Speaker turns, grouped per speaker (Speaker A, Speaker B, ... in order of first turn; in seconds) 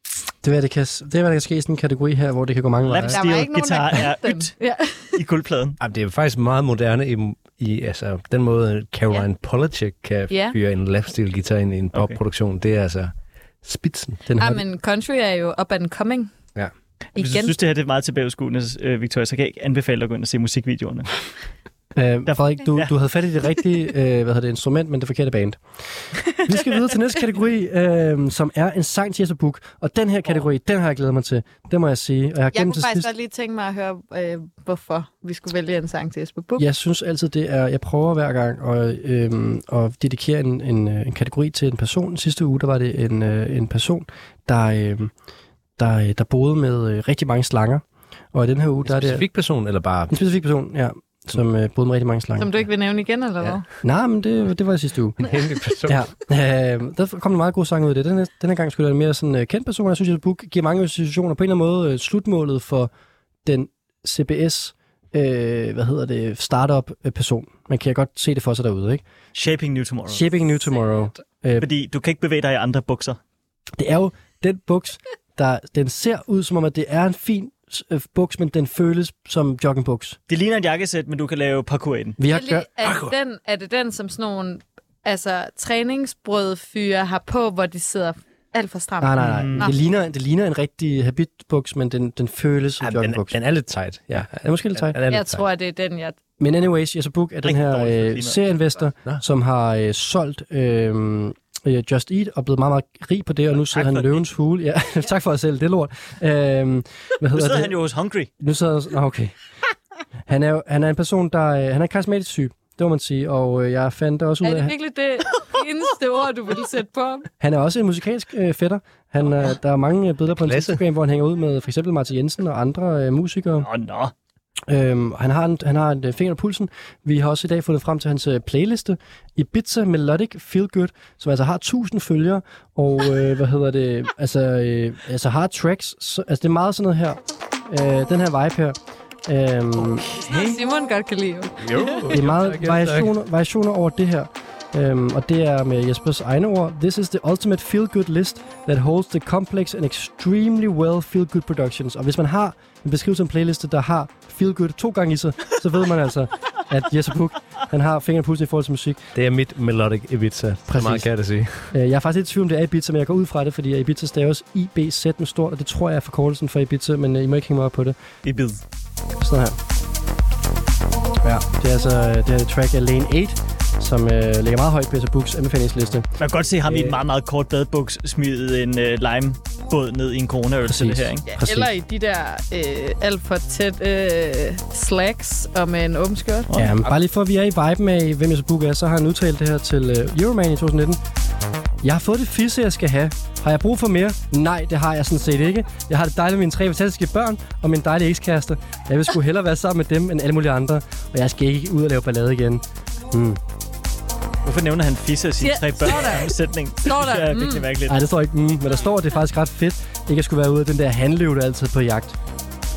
Speaker A: 0.3-3.2, 14.3-14.6, 21.9-25.6, 26.3-33.1, 36.6-45.1, 45.8-49.3, 50.1-52.5, 53.8-55.3, 55.9-62.9, 63.4-69.0, 70.1-71.7, 73.8-80.2, 82.2-82.7, 89.0-93.4, 94.2-95.0, 96.4-107.8, 108.4-109.3, 110.3-114.7, 117.4-123.7, 124.7-140.1, 142.1-159.1, 160.7-161.1, 161.7-167.9, 169.2-169.6, 171.2-176.1, 176.7-176.9, 180.7-181.7, 186.5-191.0, 191.8-203.4, 207.9-212.2
Speaker B: 2.9-4.6, 5.1-5.8, 17.1-21.1, 22.3-22.9, 69.3-70.3, 71.6-73.2, 80.3-82.2, 89.2-89.7, 97.4-98.4, 103.7-104.2, 107.3-108.3, 123.6-124.1, 168.2-168.6, 176.2-181.2, 186.5-186.9, 204.4-208.0
Speaker C: 3.0-5.2, 10.3-10.6, 14.4-16.3, 17.1-17.5, 32.5-36.6, 52.4-53.6, 82.3-89.7, 95.1-96.2, 114.4-117.3, 140.2-142.0, 181.3-186.5, 205.4-207.7
Speaker D: 5.8-14.2, 48.8-50.1, 55.2-56.0, 82.8-83.1, 92.8-95.4, 120.4-120.8, 141.6-143.1, 159.1-161.7